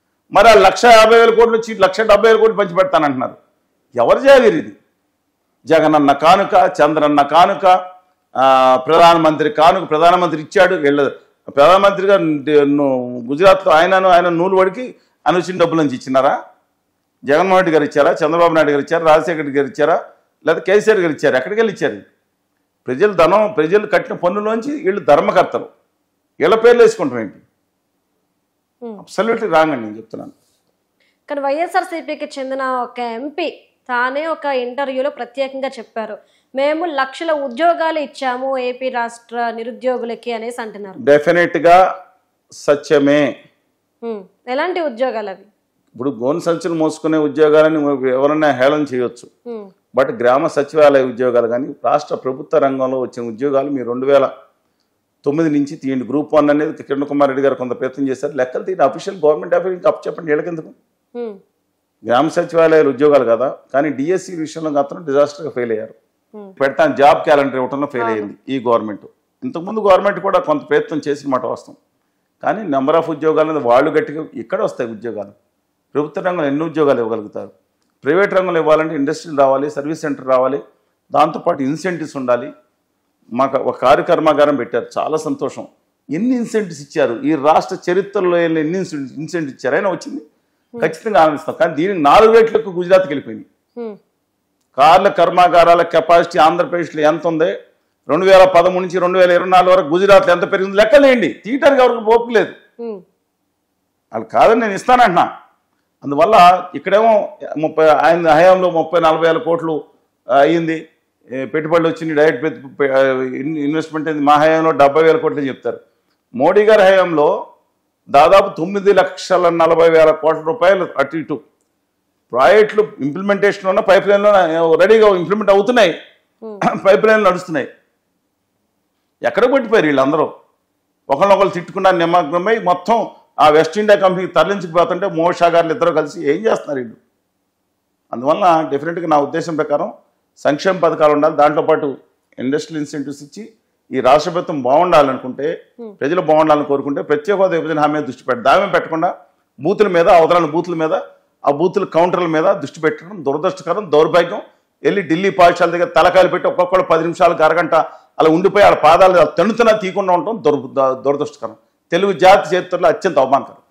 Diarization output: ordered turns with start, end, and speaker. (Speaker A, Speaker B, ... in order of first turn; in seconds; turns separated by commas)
Speaker A: 0.3-3.4, Speaker A: 4.0-4.8, Speaker A: 5.7-7.7, Speaker A: 8.4-16.4, Speaker A: 17.3-22.1, Speaker A: 22.9-25.7, Speaker A: 26.4-27.4, Speaker A: 29.0-30.4, Speaker B: 31.3-41.0, Speaker A: 41.0-41.8, Speaker A: 42.6-43.2, Speaker B: 44.0-45.5, Speaker A: 45.9-49.3, Speaker A: 49.9-54.3, Speaker A: 55.2-60.8, Speaker A: 62.1-66.0, Speaker A: 66.6-71.8, Speaker B: 68.0-68.3, Speaker A: 72.4-75.3, Speaker A: 75.9-77.5, Speaker A: 78.0-80.6, Speaker A: 81.2-82.5, Speaker A: 83.4-90.2, Speaker A: 90.8-93.4, Speaker A: 94.8-97.5, Speaker A: 98.1-102.5, Speaker A: 104.2-105.3, Speaker A: 106.0-109.8, Speaker A: 110.4-110.8, Speaker A: 111.4-115.8, Speaker A: 116.4-117.3, Speaker A: 118.1-121.4, Speaker A: 122.3-125.9, Speaker A: 126.7-127.7, Speaker A: 129.2-130.3, Speaker A: 131.1-137.0, Speaker A: 138.1-139.9, Speaker A: 140.4-141.9, Speaker A: 142.4-149.1, Speaker A: 149.6-163.6